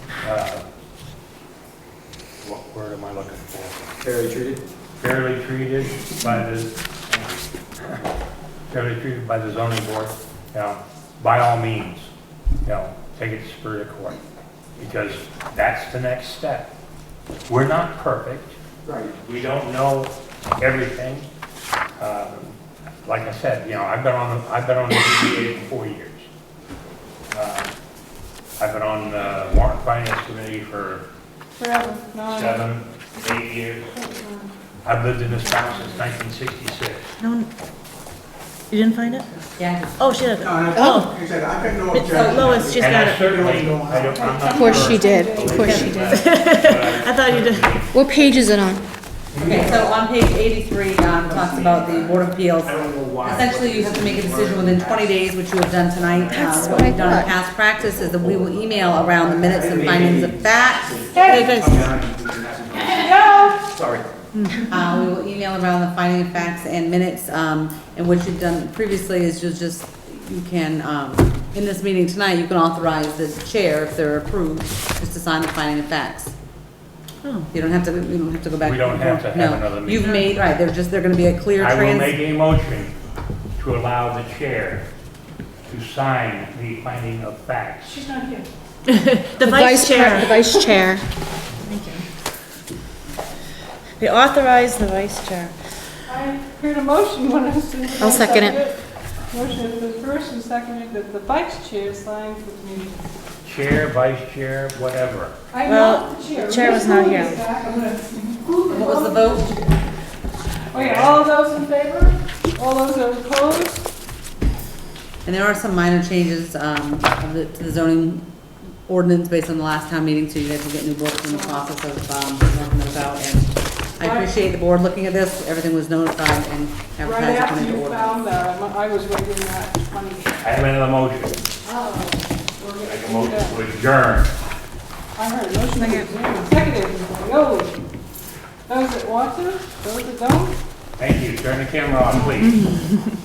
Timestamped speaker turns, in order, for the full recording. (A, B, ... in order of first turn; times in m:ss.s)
0:00.2-0:00.6 A
0:02.4-0:03.9 A
0:04.0-0:04.6 B
0:05.0-0:08.0 A
0:08.7-0:12.1 A
0:12.6-0:14.2 A
0:14.8-0:16.7 A
0:17.5-0:18.6 A
0:18.8-0:19.1 C
0:19.2-0:21.3 A
0:22.0-0:26.3 A
0:27.3-0:27.7 A
0:28.6-0:31.0 A
0:31.6-0:32.7 D
0:32.2-0:33.9 A
0:33.9-0:34.5 D
0:34.8-0:37.1 A
0:35.3-0:36.0 D
0:37.2-0:37.5 E
0:38.7-0:39.3 E
0:39.5-0:40.2 F
0:40.0-0:41.1 E
0:40.4-0:44.2 C
0:40.7-0:41.0 G
0:41.9-0:43.2 E
0:42.0-0:42.6 F
0:42.8-0:47.9 A
0:44.0-0:46.3 D
0:44.5-0:46.2 G
0:45.6-0:47.9 E
0:47.9-0:48.8 G
0:49.3-0:49.8 A
0:49.4-1:01.5 F
0:51.4-0:54.9 B
0:56.1-0:57.1 B
0:56.4-0:57.3 G
0:57.8-1:04.0 B
1:01.1-1:01.9 D
1:01.3-1:01.8 E
1:02.8-1:03.7 D
1:04.3-1:04.6 E
1:04.7-1:16.3 F
1:17.2-1:17.5 E
1:17.5-1:22.1 F
1:18.6-1:20.3 A
1:21.6-1:22.9 A
1:23.6-1:24.8 A
1:25.7-1:28.0 A
1:27.8-1:28.4 D
1:28.9-1:30.4 E
1:29.4-1:31.0 G
1:30.1-1:30.8 D
1:31.6-1:32.0 E
1:34.0-1:35.5 E
1:36.1-1:43.0 D
1:38.0-1:38.6 G
1:43.4-1:45.3 A
1:45.5-1:49.6 D
1:45.6-1:47.4 E
1:48.7-1:49.6 F
1:50.7-1:53.9 D
1:50.7-1:51.3 A
1:55.2-1:58.2 F
1:58.8-2:08.1 F
2:01.3-2:01.6 D
2:04.0-2:04.3 D
2:07.0-2:10.5 D
2:10.4-2:11.4 A
2:11.6-2:13.6 D
2:12.8-2:14.3 A
2:15.2-2:17.8 D
2:15.8-2:16.1 G
2:18.7-2:20.6 D
2:21.0-2:22.7 A
2:22.4-2:23.0 E